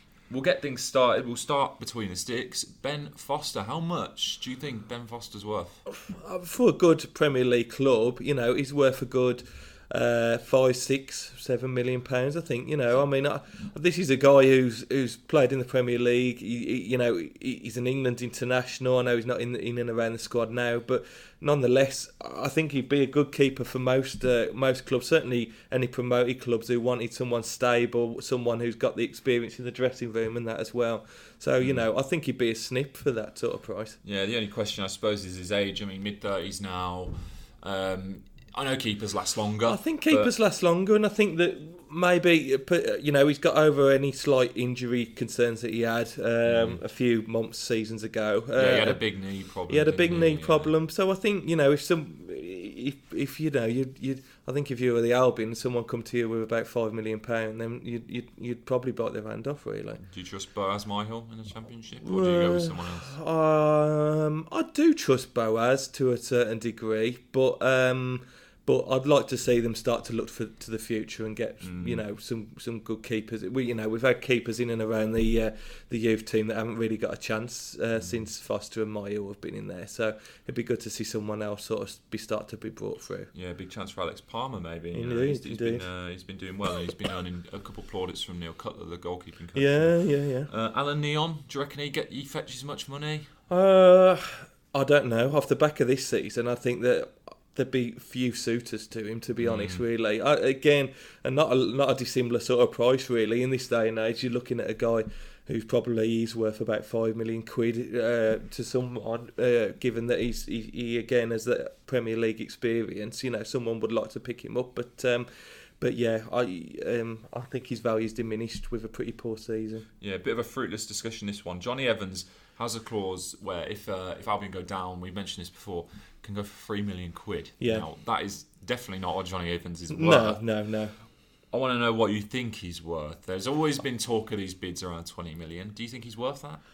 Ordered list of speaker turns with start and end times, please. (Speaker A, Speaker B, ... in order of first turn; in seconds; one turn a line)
Speaker A: 0.3-5.8
Speaker B: 5.9-34.0
Speaker A: 34.0-40.3
Speaker B: 39.6-49.0
Speaker A: 46.4-46.8
Speaker A: 48.5-50.7
Speaker B: 49.7-60.0
Speaker A: 60.0-63.1
Speaker B: 62.0-83.3
Speaker A: 71.6-72.0
Speaker A: 78.0-78.2
Speaker A: 83.3-93.3
Speaker B: 84.9-85.8
Speaker B: 89.5-90.5
Speaker B: 93.5-115.3
Speaker A: 99.4-99.8
Speaker B: 115.8-119.9
Speaker A: 120.0-130.4
Speaker B: 127.6-127.8
Speaker B: 129.9-130.9
Speaker A: 131.5-136.6